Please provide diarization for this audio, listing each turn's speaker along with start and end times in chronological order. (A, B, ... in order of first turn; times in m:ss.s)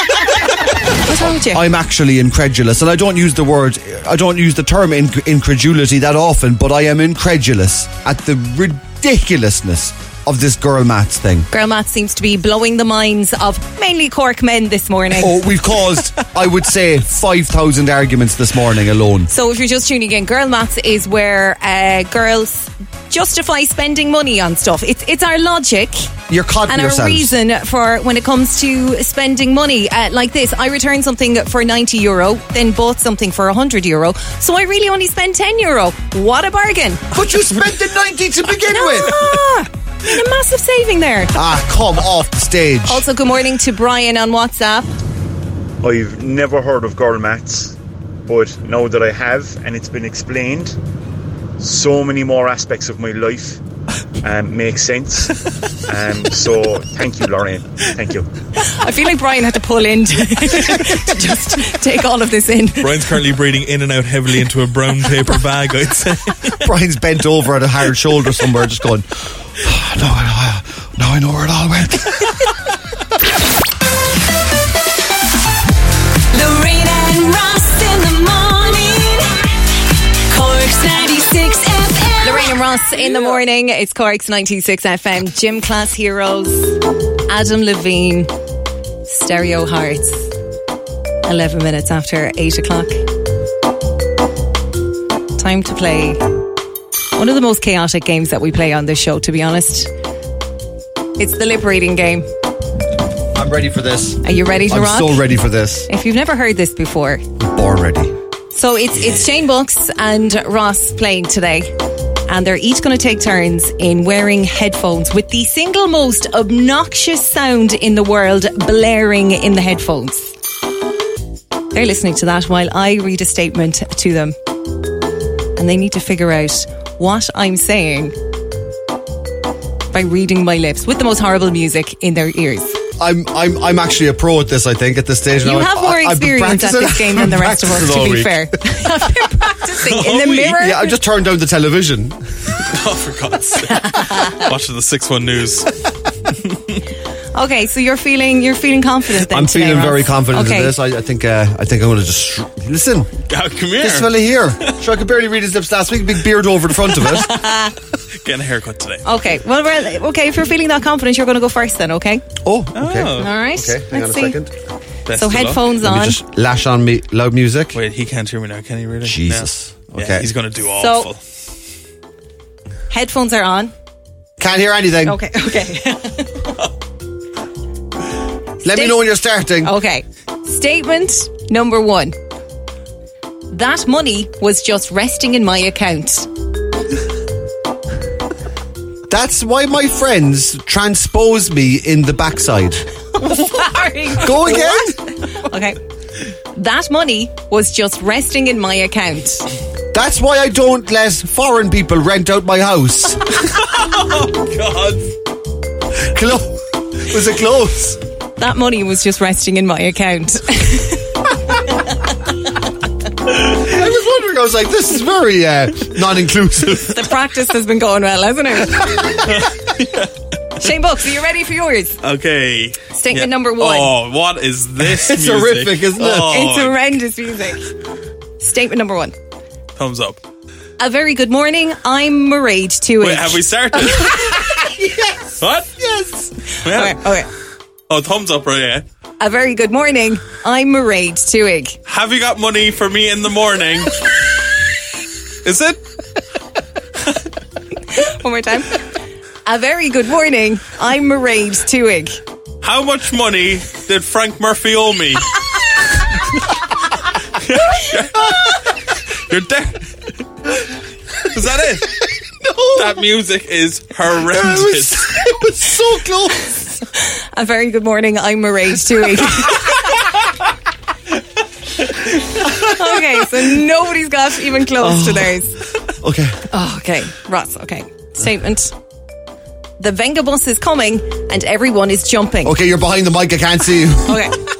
0:01.0-0:01.6 A
0:01.1-0:11.5 B
0:11.5-0:15.4 A
0:15.2-0:19.3 B
0:19.3-0:26.1 A
0:26.3-0:27.3 B
0:26.7-0:37.1 A
0:37.1-0:39.4 B
0:38.7-0:41.4 A
0:41.4-0:43.0 B
0:42.9-0:44.9 A
0:45.8-0:47.7 C
0:48.3-0:50.8 C
0:51.6-0:53.6 C
0:54.2-0:55.3 C
0:55.9-0:58.2 C
0:58.6-1:03.1 A
1:02.8-1:06.6 D
1:06.6-1:12.6 B
1:16.3-1:19.4 E
1:20.3-1:22.6 E
1:22.2-1:26.8 A
1:27.3-1:28.3 A
1:29.1-1:30.3 A
1:31.2-1:33.0 A
1:35.4-1:36.2 A
1:37.1-1:39.9 A
1:41.2-1:42.3 A
1:43.3-1:45.9 B
1:44.2-1:47.2 A
1:47.4-1:48.1 B
1:48.5-1:51.7 A
1:52.3-2:00.3 A
2:01.7-2:04.4 A
2:05.6-2:08.1 A
2:09.9-2:12.8 A
2:13.0-2:18.5 B
2:15.4-2:21.0 A
2:19.8-2:20.6 D
2:20.4-2:22.2 B
2:22.5-2:25.8 D
2:23.7-2:24.4 A
2:26.4-2:26.8 D
2:27.3-2:30.7 A
2:29.2-2:33.1 B
2:33.3-2:34.1 D
2:33.8-2:37.3 B
2:38.2-2:39.0 D
2:39.0-2:42.2 A
2:42.4-2:44.5 B
2:42.8-2:43.3 D
2:43.2-2:44.4 A
2:45.1-2:45.6 D
2:45.1-2:46.2 A
2:45.8-2:47.8 B
2:47.7-2:51.2 D
2:49.0-2:50.3 B
2:50.8-2:51.1 A
2:52.9-2:53.7 A
2:54.4-2:55.2 B
2:55.0-2:56.5 A
2:58.6-2:59.1 A
2:58.6-2:59.7 B
2:59.6-3:02.1 A
3:03.5-3:06.3 A
3:09.1-3:12.9 B
3:13.2-3:15.8 A
3:14.2-3:15.0 B
3:16.5-3:19.5 A
3:19.9-3:23.5 B
3:23.5-3:25.1 D
3:26.0-3:28.0 B
3:28.4-3:31.1 A
3:33.5-3:36.9 B
3:36.8-3:39.3 A
3:39.3-3:40.1 D
3:40.6-3:42.0 A
3:42.0-3:46.9 D
3:42.9-3:43.9 A
3:44.8-3:46.4 B
3:46.2-3:47.7 A
3:48.4-3:49.1 A
3:49.8-3:50.2 D
3:50.8-3:53.4 A
3:53.0-3:54.4 D
3:54.5-3:56.3 B
3:55.4-3:55.7 D
3:56.6-3:57.2 D
3:56.6-3:57.3 A
3:57.9-3:58.8 D
3:59.2-4:01.8 A
4:01.9-4:04.0 D
4:05.4-4:05.8 D
4:08.0-4:08.8 A
4:09.4-4:12.2 A
4:12.6-4:15.4 D
4:17.4-4:18.6 D
4:19.3-4:20.1 D
4:21.2-4:22.0 D
4:22.4-4:23.0 B
4:22.7-4:25.2 D
4:24.2-4:26.6 B
4:27.0-4:29.8 A
4:32.4-4:35.6 A
4:34.8-4:36.4 B
4:36.5-4:38.7 A
4:39.8-4:42.6 A
4:42.4-4:44.3 B
4:44.1-4:44.4 A